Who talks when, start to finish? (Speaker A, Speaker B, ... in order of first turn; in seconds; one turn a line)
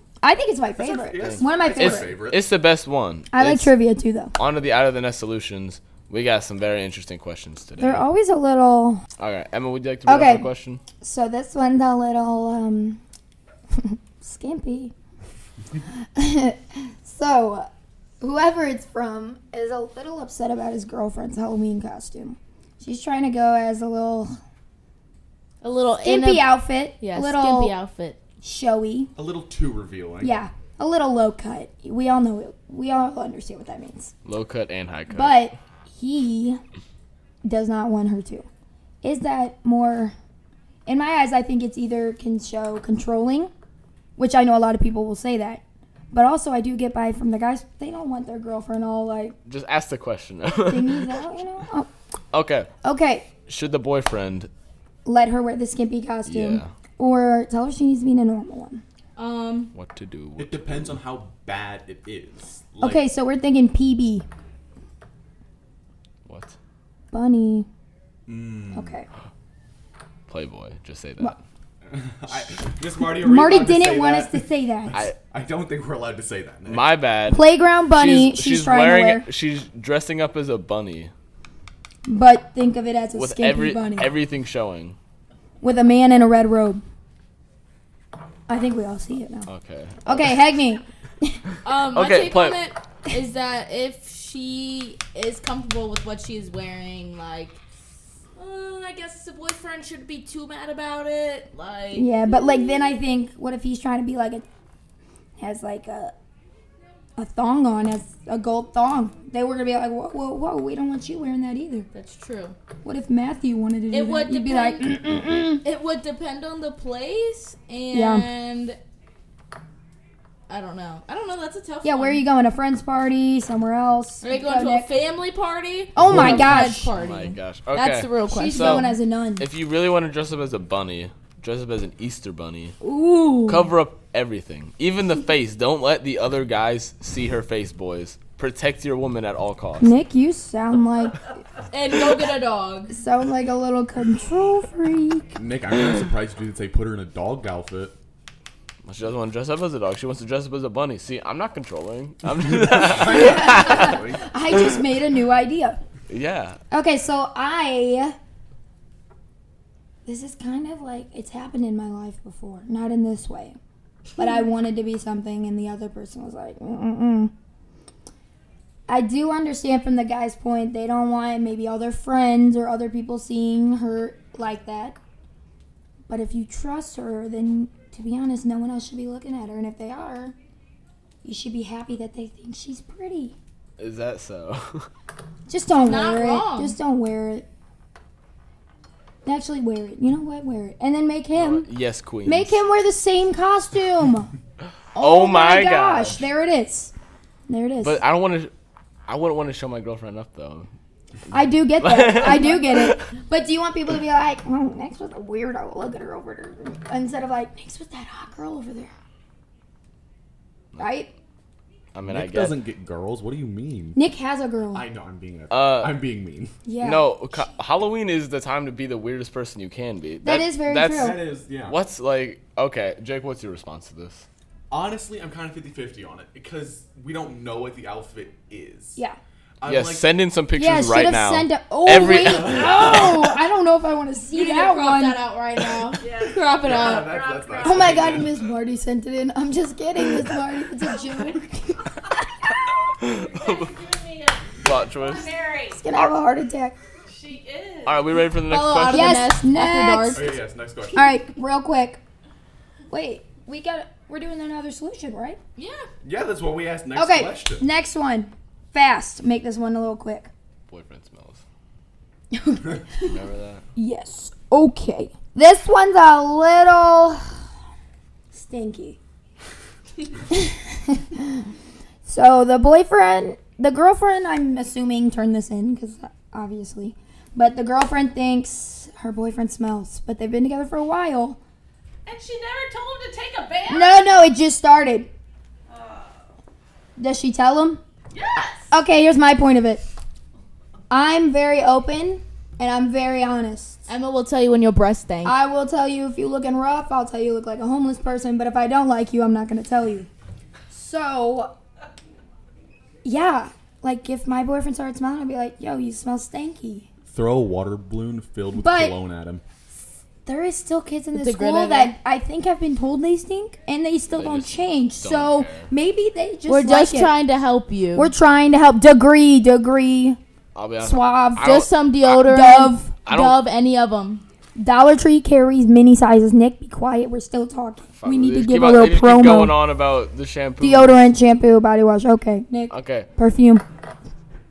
Speaker A: 0.2-2.1
Speaker B: 0.8-2.5
Speaker C: 1.2-3.7
Speaker A: 3.3-4.3
Speaker C: 4.4-8.1
Speaker A: 7.8-9.0
Speaker C: 9.2-10.8
Speaker A: 10.1-10.5
Speaker A: 11.0-13.0
Speaker A: 13.7-14.9
Speaker A: 16.1-17.7
Speaker A: 18.2-24.4
Speaker D: 25.6-28.2
Speaker A: 26.0-27.8
Speaker A: 28.4-29.1
Speaker B: 29.2-30.4
Speaker A: 30.2-34.1
Speaker C: 34.3-35.4
Speaker A: 35.1-36.6
Speaker A: 37.4-38.5
Speaker A: 39.0-40.1
Speaker A: 40.9-43.5
Speaker A: 44.2-49.4
Speaker C: 49.5-51.1
Speaker A: 50.7-51.9
Speaker C: 52.3-52.7
Speaker A: 52.8-53.3
Speaker C: 53.5-54.5
Speaker A: 55.0-58.8
Speaker C: 56.3-56.7
Speaker D: 59.2-59.7
Speaker C: 59.7-61.0
Speaker B: 60.4-63.0
Speaker A: 62.8-64.3
Speaker C: 66.2-66.5
Speaker A: 67.1-67.7
Speaker B: 68.3-69.0
Speaker A: 68.7-69.1
Speaker C: 70.3-71.4
Speaker B: 71.8-77.0
Speaker A: 73.0-75.0
Speaker C: 76.7-81.1
Speaker A: 77.3-79.3
Speaker A: 82.1-84.1
Speaker C: 83.2-85.0
Speaker A: 85.6-86.8
Speaker A: 88.5-89.5
Speaker C: 89.5-90.4
Speaker A: 90.1-91.4
Speaker D: 91.6-97.6
Speaker C: 92.0-92.6
Speaker D: 98.4-102.9
Speaker A: 101.9-104.5
Speaker A: 105.4-106.2
Speaker A: 107.2-111.9
Speaker D: 111.9-112.6
Speaker A: 112.8-115.6
Speaker D: 113.9-115.0
Speaker D: 115.6-118.8
Speaker A: 117.9-118.3
Speaker D: 120.5-122.2
Speaker A: 121.8-124.9
Speaker D: 124.2-128.9
Speaker A: 126.0-126.9
Speaker C: 127.0-132.8
Speaker A: 128.3-129.4
Speaker A: 132.8-133.7
Speaker C: 133.5-139.9
Speaker A: 139.8-141.3
Speaker D: 141.7-143.0
Speaker A: 142.9-145.3
Speaker B: 145.3-147.9
Speaker C: 148.9-154.0
Speaker B: 152.4-154.3
Speaker A: 152.9-155.8
Speaker C: 156.1-156.6
Speaker A: 156.7-158.2
Speaker A: 160.1-163.6
Speaker A: 164.2-167.3
Speaker A: 168.9-175.0
Speaker A: 176.1-180.3
Speaker A: 181.2-183.4
Speaker C: 183.8-184.9
Speaker A: 185.5-187.5
Speaker D: 185.8-186.8
Speaker A: 189.2-191.7
Speaker C: 191.3-192.6
Speaker A: 192.3-194.3
Speaker C: 195.0-196.2
Speaker A: 195.0-196.9
Speaker A: 197.5-198.0
Speaker C: 197.8-198.5
Speaker C: 199.1-200.7
Speaker A: 201.3-208.9
Speaker C: 201.8-203.0
Speaker A: 210.8-211.1
Speaker C: 211.9-212.6
Speaker B: 212.1-214.0
Speaker A: 213.9-214.9
Speaker B: 214.7-216.6
Speaker C: 215.5-216.0
Speaker A: 216.7-217.5
Speaker C: 216.8-224.3
Speaker A: 220.2-221.2
Speaker B: 220.9-221.8
Speaker B: 224.7-229.0
Speaker B: 229.6-230.1
Speaker C: 229.7-233.1
Speaker A: 230.6-235.2
Speaker B: 232.0-233.3
Speaker D: 234.3-237.2
Speaker E: 236.0-238.3
Speaker B: 236.6-238.4
Speaker A: 237.6-241.9
Speaker C: 243.0-243.7
Speaker E: 243.0-245.8
Speaker C: 244.6-245.3
Speaker A: 245.7-246.8
Speaker E: 247.1-248.2
Speaker C: 247.9-249.3
Speaker D: 248.5-250.3
Speaker A: 248.9-250.3
Speaker B: 250.1-251.2
Speaker A: 250.9-252.0
Speaker A: 252.9-255.4
Speaker D: 255.6-255.9
Speaker B: 256.0-257.7
Speaker A: 256.9-260.3
Speaker C: 260.7-261.4
Speaker A: 262.3-263.1
Speaker C: 262.9-263.6
Speaker A: 263.8-267.2
Speaker A: 268.3-269.0
Speaker A: 270.3-271.5
Speaker A: 272.1-281.4
Speaker E: 282.1-284.2
Speaker A: 283.7-285.1
Speaker E: 285.7-286.3
Speaker A: 287.0-287.8
Speaker E: 288.1-288.7
Speaker A: 288.7-289.9
Speaker A: 290.9-293.8
Speaker D: 293.9-295.4
Speaker A: 295.2-300.1
Speaker A: 300.7-301.5
Speaker A: 303.0-306.9
Speaker B: 307.1-309.4
Speaker A: 308.6-309.0
Speaker A: 310.2-317.1
Speaker D: 311.1-312.0
Speaker C: 314.1-315.7
Speaker D: 316.5-318.1
Speaker A: 318.0-320.2
Speaker C: 320.6-322.2
Speaker A: 320.8-321.6
Speaker D: 321.4-324.2
Speaker A: 322.2-322.9
Speaker C: 323.1-323.4
Speaker A: 324.6-329.6
Speaker C: 328.0-331.1
Speaker A: 330.6-333.6
Speaker C: 332.7-333.1